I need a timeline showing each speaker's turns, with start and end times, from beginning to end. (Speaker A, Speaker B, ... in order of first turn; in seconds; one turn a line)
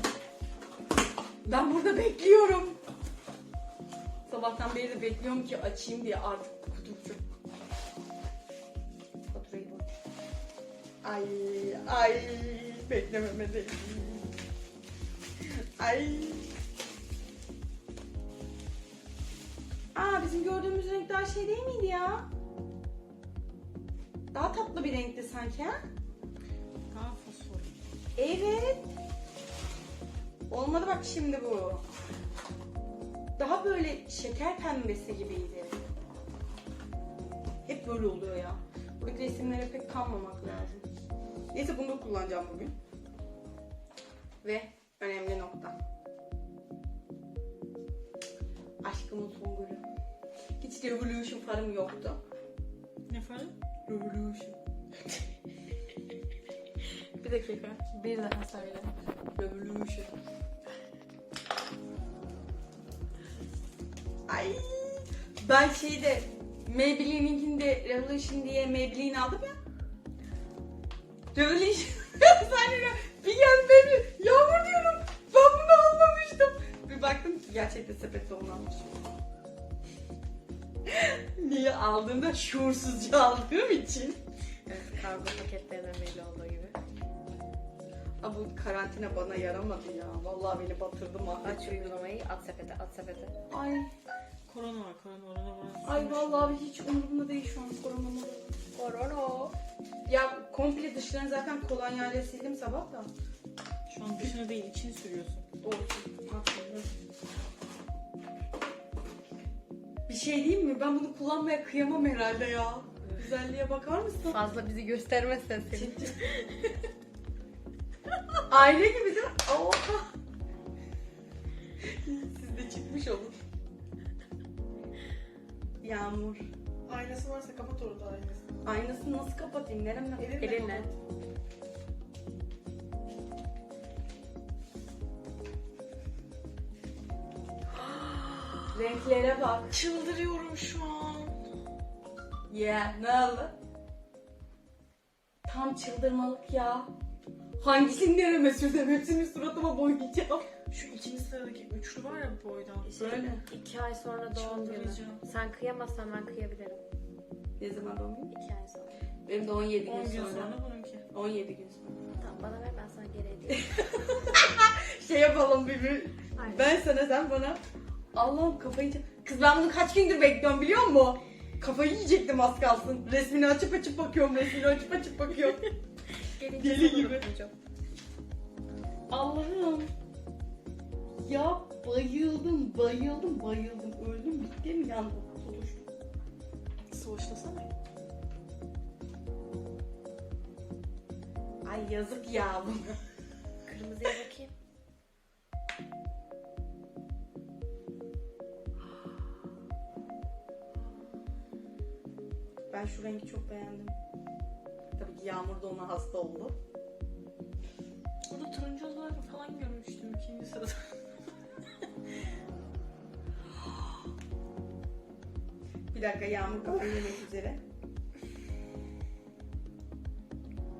Speaker A: 1.4-2.8
Speaker A: 4.3-7.2
Speaker A: 9.3-9.9
Speaker A: 11.0-14.3
Speaker A: 15.4-16.5
Speaker A: 19.9-22.3
Speaker A: 24.3-25.8
Speaker B: 26.9-27.7
Speaker A: 28.2-28.9
Speaker A: 30.5-31.8
Speaker A: 33.4-35.8
Speaker A: 37.7-40.9
Speaker A: 41.5-42.8
Speaker A: 44.4-45.8
Speaker A: 48.8-49.8
Speaker A: 50.6-52.2
Speaker B: 53.1-53.5
Speaker A: 53.9-54.6
Speaker C: 57.2-57.7
Speaker A: 57.6-60.1
Speaker A: 64.3-69.6
Speaker A: 71.3-79.0
Speaker A: 80.9-84.2
Speaker C: 84.7-86.8
Speaker A: 88.2-92.0
Speaker C: 91.3-93.4
Speaker A: 93.5-93.9
Speaker B: 94.5-96.6
Speaker A: 95.8-98.6
Speaker C: 98.7-99.6
Speaker A: 100.1-103.1
Speaker B: 103.9-105.5
Speaker A: 105.6-106.9
Speaker A: 110.1-114.4
Speaker C: 114.3-116.5
Speaker A: 115.7-116.5
Speaker A: 118.5-120.1
Speaker A: 121.8-123.3
Speaker A: 125.8-126.5
Speaker B: 126.9-128.7
Speaker A: 128.7-130.9
Speaker B: 130.2-130.9
Speaker B: 137.7-138.8
Speaker A: 138.7-139.8
Speaker B: 139.7-141.4
Speaker A: 142.5-143.6
Speaker A: 145.4-146.9
Speaker A: 147.6-150.5
Speaker B: 150.7-153.3
Speaker C: 152.9-156.8
Speaker A: 152.9-153.4
Speaker B: 154.3-155.3
Speaker A: 157.6-158.3
Speaker C: 158.3-159.0
Speaker A: 159.2-160.6
Speaker B: 159.8-161.1
Speaker A: 161.1-162.0
Speaker C: 162.2-164.1
Speaker A: 163.5-167.6
Speaker C: 166.4-166.8
Speaker A: 168.1-175.7
Speaker C: 176.2-177.5
Speaker A: 176.6-177.3
Speaker A: 179.1-179.9
Speaker A: 181.2-185.9
Speaker B: 186.9-187.7
Speaker A: 191.7-193.0
Speaker C: 193.7-194.5
Speaker A: 202.7-204.0
Speaker A: 205.0-206.6
Speaker B: 208.3-211.9
Speaker A: 215.9-217.6